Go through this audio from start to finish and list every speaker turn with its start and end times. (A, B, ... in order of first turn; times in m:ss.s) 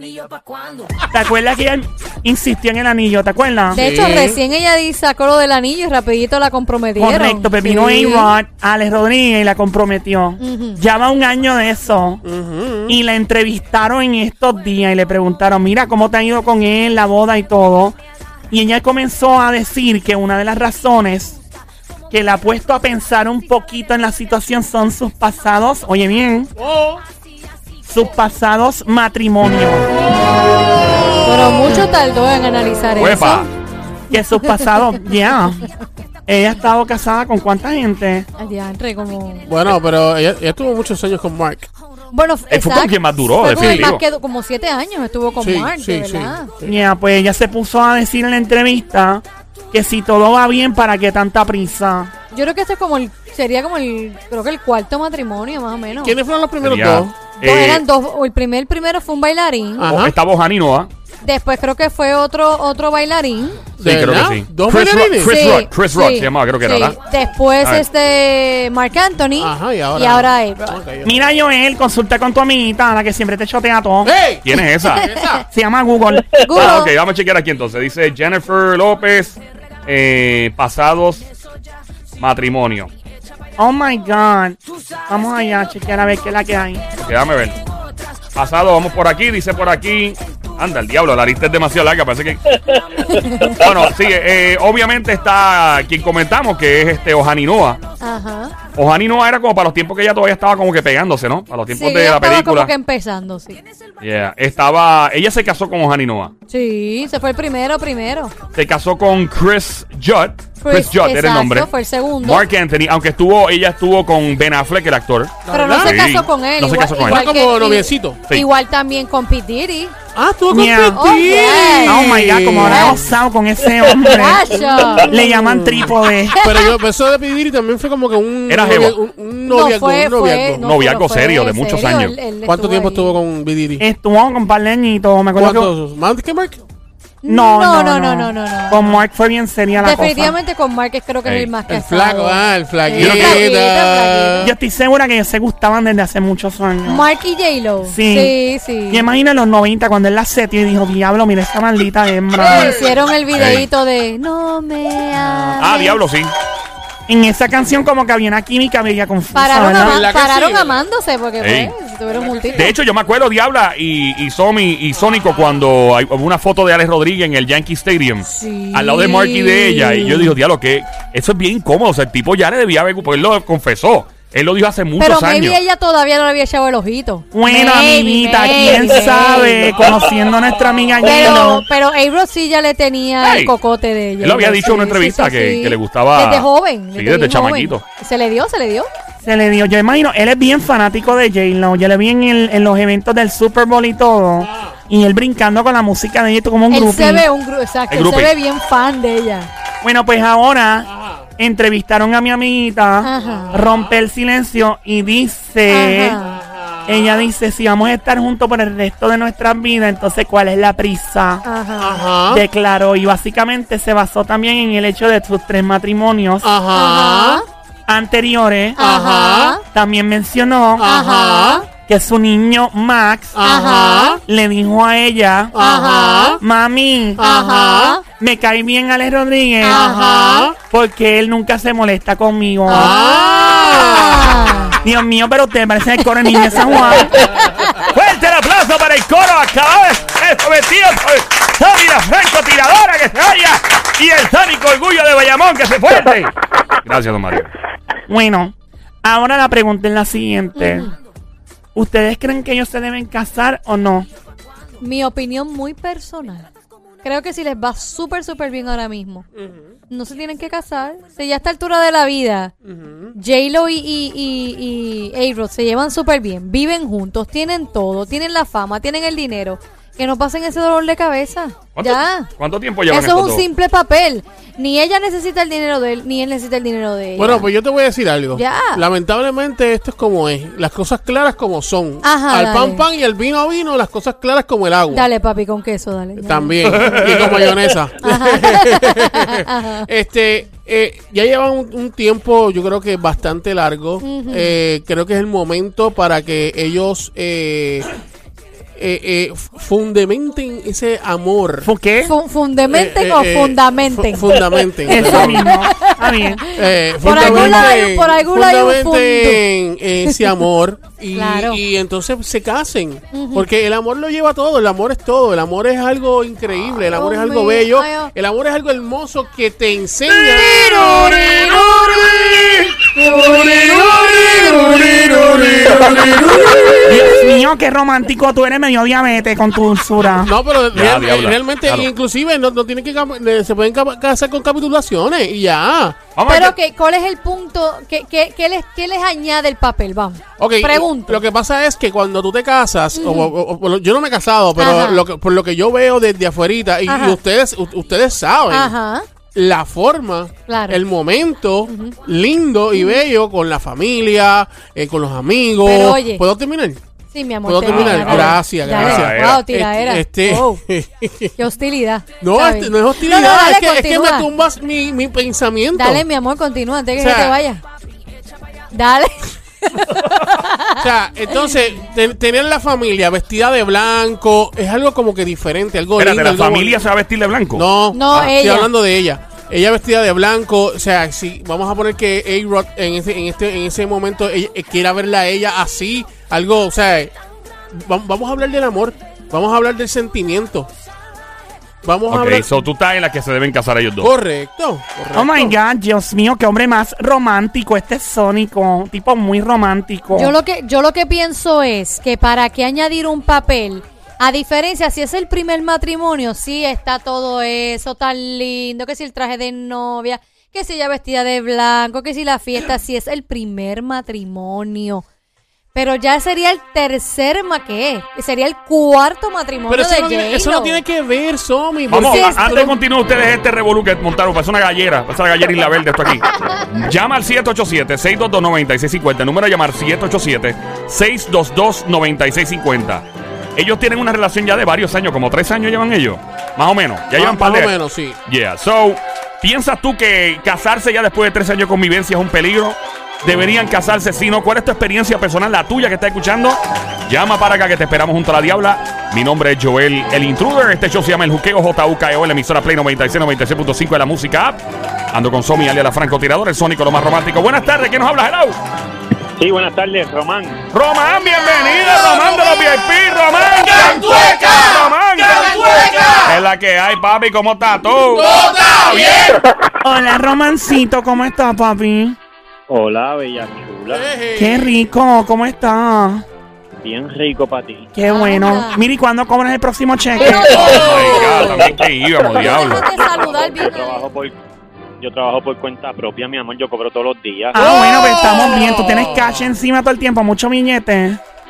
0:01.1-0:03.8 A
0:03.7-0:08.3 B
0:03.7-0:04.4 C
0:07.0-0:12.2 A
0:10.4-0:10.8 B
0:12.2-0:13.0 C
0:12.9-0:18.0 A
0:18.5-0:21.4 A
0:22.1-0:26.5 A
0:26.6-0:27.0 C
0:27.8-0:29.8 A
0:29.9-0:31.8 C
0:31.2-0:33.5 B
0:33.0-0:33.5 D
0:34.1-0:35.6 A
0:34.1-0:35.1 B
0:36.3-0:38.3 A
0:38.4-0:39.5 B
0:39.4-0:41.7 C
0:42.1-0:46.5 B
0:42.5-0:44.0 D
0:43.5-0:43.9 C
0:45.4-0:46.8 C
0:46.6-0:52.1 A
0:52.3-0:56.2 B
0:56.0-0:57.2 C
0:56.6-0:57.8 D
0:57.4-0:59.9 B
0:59.8-1:00.1 C
0:59.8-1:00.9 D
1:01.2-1:03.6 B
1:03.8-1:05.4 C
1:03.8-1:07.0 D
1:05.2-1:10.8 B
1:09.4-1:11.2 C
1:11.0-1:14.1 A
1:14.0-1:15.4 C
1:14.4-1:15.1 D
1:15.0-1:15.3 B
1:15.4-1:16.4 A
1:16.4-1:16.9 B
1:16.5-1:21.3 D
1:22.2-1:22.9 D
1:23.6-1:26.8 A
1:27.0-1:27.6 D
1:28.3-1:32.4 D
1:33.1-1:33.6 B
1:33.3-1:37.8 D
1:38.0-1:38.6 B
1:38.7-1:42.7 D
1:41.7-1:43.6 B
1:44.0-1:46.3 D
1:46.5-1:48.3 B
1:48.5-1:57.2 D
1:50.6-1:52.4 B
1:55.4-1:56.0 C
1:55.5-1:59.9 B
1:57.0-1:58.2 C
2:00.1-2:03.1 C
2:00.5-2:01.0 A
2:00.9-2:02.1 B
2:01.8-2:06.4 A
2:02.6-2:03.0 B
2:04.0-2:05.6 B
2:04.6-2:10.6 C
2:06.3-2:06.8 B
2:08.5-2:09.0 D
2:09.4-2:13.2 B
2:10.6-2:12.2 D
2:12.4-2:13.8 C
2:13.8-2:15.7 A
2:15.4-2:16.6 C
2:17.2-2:19.0 B
2:17.2-2:20.3 A
2:19.8-2:24.5 B
2:21.2-2:21.5 D
2:21.6-2:24.5 C
2:23.0-2:23.5 D
2:24.4-2:27.0 A
2:26.8-2:29.0 B
2:27.8-2:28.4 A
2:28.9-2:32.8 A
2:32.4-2:33.0 C
2:32.4-2:36.0 B
2:33.3-2:33.7 D
2:35.6-2:36.3 D
2:37.1-2:40.0 A
2:39.3-2:42.7 B
2:39.7-2:40.8 C
2:41.4-2:41.7 D
2:42.1-2:42.8 C
2:42.6-2:55.6 D
2:44.9-2:45.7 C
2:48.2-2:50.3 B
2:55.0-2:59.9 B
2:57.3-3:01.6 A
3:01.0-3:08.9 B
3:03.2-3:03.5 D
3:04.2-3:07.8 D
3:09.2-3:17.2 A
3:14.4-3:14.8 C
3:16.7-3:19.5 B
3:17.9-3:18.3 D
3:19.8-3:26.2 A
3:20.9-3:21.3 C
3:23.0-3:23.6 B
3:23.2-3:24.0 C
3:25.7-3:26.4 B
3:26.2-3:27.2 C
3:26.8-3:31.4 A
3:31.4-3:32.0 B
3:31.8-3:32.4 C
3:32.3-3:36.5 A
3:36.4-3:37.4 C
3:36.7-3:37.4 B
3:37.9-3:38.8 A
3:38.8-3:39.6 B
3:38.8-3:39.6 C
3:39.7-3:40.9 A
3:40.8-3:41.6 C
3:40.8-3:41.6 B
3:41.8-3:43.4 A
3:43.3-3:44.2 C
3:43.4-3:44.2 B
3:44.2-3:45.5 A
3:45.5-3:46.4 C
3:45.6-3:46.4 B
3:46.4-3:47.2 A
3:47.2-3:48.0 C
3:47.2-3:48.0 B
3:48.1-3:52.9 A
3:49.6-3:50.5 B
3:49.7-3:50.6 C
3:52.7-3:54.7 B
3:52.7-3:54.8 C
3:54.8-3:57.2 A
3:56.3-3:57.0 B
3:56.9-3:57.6 C
3:57.5-3:57.9 B
3:57.8-4:06.3 D
4:06.8-4:07.5 D
4:08.1-4:10.9 A
4:10.6-4:10.9 B
4:11.7-4:14.1 A
4:14.8-4:16.5 B
4:17.0-4:19.2 B
4:19.4-4:19.7 C
4:19.9-4:22.5 B
4:22.6-4:23.1 C
4:23.1-4:32.3 B
4:31.7-4:33.4 D
4:32.9-4:37.5 B
4:37.2-4:45.0 C
4:38.3-4:38.8 B
4:42.0-4:42.8 B
4:44.9-4:47.1 B
4:46.2-4:57.9 C
4:46.7-4:47.6 D
4:48.0-4:49.9 B
4:54.0-4:54.6 B
4:58.8-5:01.7 C
5:01.6-5:02.1 A
5:02.0-5:09.4 B
5:02.6-5:05.5 C
5:04.8-5:06.5 A
5:06.6-5:27.2 C
5:07.0-5:07.7 A
5:10.0-5:10.4 B
5:11.1-5:11.6 B
5:13.1-5:13.5 B
5:16.9-5:18.1 B
5:20.3-5:22.1 B
5:22.9-5:24.8 B
5:26.5-5:26.8 B
5:26.9-5:30.3 A
5:30.1-5:36.0 C
5:30.7-5:31.9 D
5:36.1-5:36.5 D
5:36.3-5:41.2 B
5:40.4-5:48.7 C
5:42.9-5:43.3 B
5:44.6-5:45.0 B
5:46.9-5:47.2 B
5:48.5-5:49.0 B
5:49.3-5:56.8 C
5:50.5-5:50.8 B
5:51.7-5:52.0 B
5:52.7-5:53.0 B
5:55.6-5:56.2 B
5:57.1-6:00.6 B
5:57.4-6:01.3 C
5:57.6-5:59.4 D
6:01.4-6:04.3 B
6:02.2-6:06.0 C
6:05.7-6:07.6 B
6:07.0-6:07.4 C
6:08.7-6:10.8 B
6:10.8-6:16.9 C
6:16.0-6:17.6 D
6:17.5-6:27.1 C
6:17.9-6:18.7 B
6:27.7-6:30.7 C
6:31.8-6:32.6 C
6:32.1-6:34.1 D
6:34.0-6:35.5 C
6:35.1-6:40.3 A
6:40.1-6:55.0 B
6:55.7-7:00.8 B
6:59.7-7:02.8 C
7:01.9-7:13.0 D
7:01.9-7:02.6 B
7:13.6-7:34.6 D
7:17.1-7:18.2 C
7:35.1-7:38.6 D
7:39.4-7:40.6 E
7:40.7-7:48.3 D
7:43.7-7:46.4 C
7:48.1-7:49.4 C
7:49.8-7:52.2 A
7:52.7-7:54.0 E
7:53.9-7:54.8 C
7:54.4-7:56.2 A
7:56.8-7:57.9 E
7:57.9-8:00.8 A
7:58.0-7:58.8 B
8:00.2-8:00.8 E
8:00.2-8:01.5 B
8:00.3-8:01.7 C
8:00.7-8:02.8 D
8:01.4-8:01.8 E
8:02.3-8:04.0 B
8:02.5-8:04.3 E
8:05.0-8:07.6 E
8:07.5-8:11.2 A
8:07.5-8:09.5 C